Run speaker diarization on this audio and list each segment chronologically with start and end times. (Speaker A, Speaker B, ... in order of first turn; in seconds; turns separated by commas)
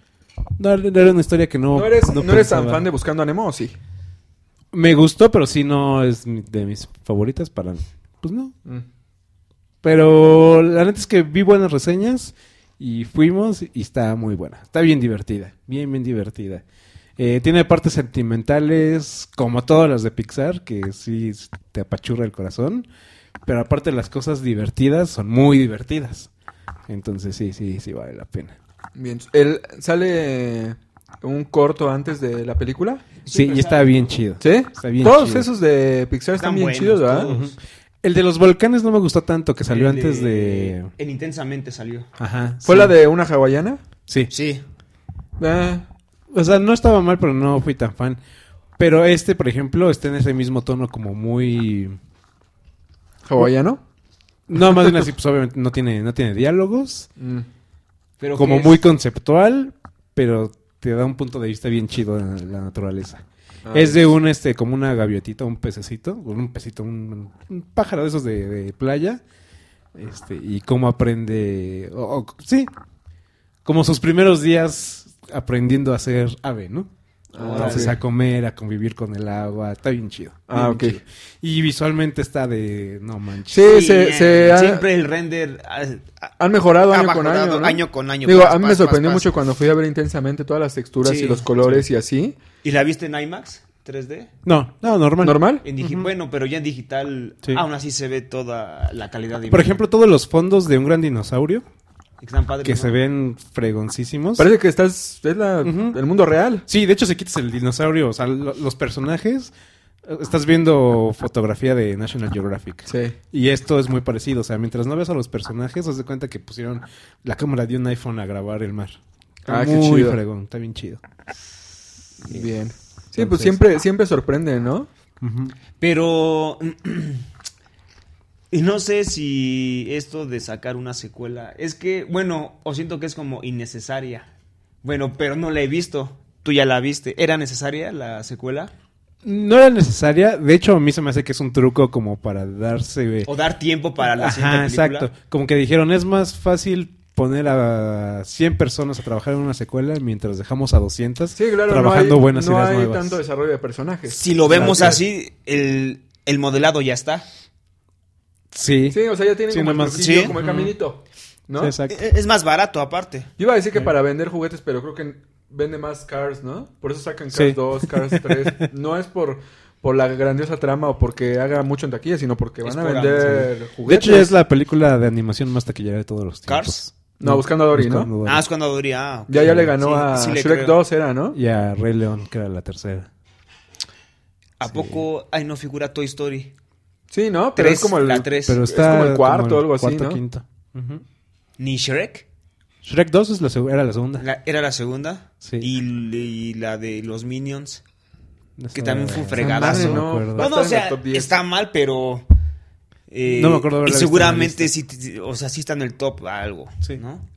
Speaker A: 0.6-2.8, Speaker B: 1.7-3.7, Speaker A: 4.7-8.5, Speaker A: 9.8-16.6, Speaker A: 17.2-22.9, Speaker A: 23.4-26.3, Speaker A: 26.9-28.5, Speaker B: 28.9-33.0, Speaker C: 33.2-34.1, Speaker A: 33.3-35.5, Speaker B: 34.4-37.3, Speaker C: 36.4-37.5, Speaker A: 37.3-40.9, Speaker C: 39.7-42.1, Speaker A: 42.2-42.9, Speaker B: 42.6-43.8, Speaker C: 44.3-44.6, Speaker B: 45.4-45.9, Speaker A: 46.3-48.2, Speaker A: 48.8-52.0, Speaker B: 53.2-53.8, Speaker A: 54.5-57.1, Speaker B: 57.2-57.5, Speaker C: 58.2-58.8, Speaker A: 58.4-69.2, Speaker B: 63.6-64.1, Speaker A: 69.9-72.7, Speaker A: 73.6-76.9, Speaker B: 77.3-78.0, Speaker C: 77.4-78.0, Speaker A: 77.5-83.7, Speaker B: 80.5-81.0, Speaker B: 83.5-84.8, Speaker C: 83.6-86.3, Speaker B: 86.4-92.4, Speaker C: 86.9-89.3, Speaker C: 91.0-91.4, Speaker C: 92.6-94.3, Speaker A: 94.4-96.1, Speaker B: 95.2-95.6, Speaker C: 95.6-99.8, Speaker A: 99.5-101.6, Speaker C: 102.2-103.0, Speaker A: 102.6-104.5, Speaker B: 104.4-106.6, Speaker A: 105.6-106.0, Speaker A: 106.7-109.5, Speaker A: 110.0-121.0, Speaker B: 112.9-113.2, Speaker B: 119.5-120.2, Speaker B: 122.2-124.9, Speaker A: 123.1-123.6, Speaker A: 125.2-125.5, Speaker C: 125.8-127.2, Speaker C: 128.5-134.3, Speaker C: 134.8-138.7, Speaker A: 139.2-143.3, Speaker C: 143.2-145.1, Speaker A: 144.1-153.2, Speaker B: 151.3-155.0, Speaker C: 154.1-157.2, Speaker A: 154.5-155.0, Speaker A: 158.5-160.7, Speaker B: 158.9-161.7, Speaker C: 159.9-160.3, Speaker A: 161.6-162.0, Speaker C: 161.9-163.3, Speaker B: 163.4-174.3, Speaker A: 167.3-168.6, Speaker C: 172.6-173.5, Speaker A: 173.3-178.4, Speaker C: 176.5-176.8, Speaker B: 177.2-178.1, Speaker C: 178.2-180.8, Speaker B: 179.3-181.4, Speaker A: 179.4-179.7, Speaker A: 181.3-183.1, Speaker C: 184.6-186.5, Speaker A: 184.7-185.0, Speaker B: 187.1-190.2, Speaker C: 187.6-188.6, Speaker A: 188.4-191.0, Speaker C: 191.6-192.2, Speaker A: 192.8-194.2, Speaker C: 194.2-197.8, Speaker A: 195.4-195.7, Speaker A: 198.6-200.4, Speaker C: 198.7-202.3, Speaker B: 199.4-201.3, Speaker C: 203.1-207.2, Speaker A: 203.3-204.7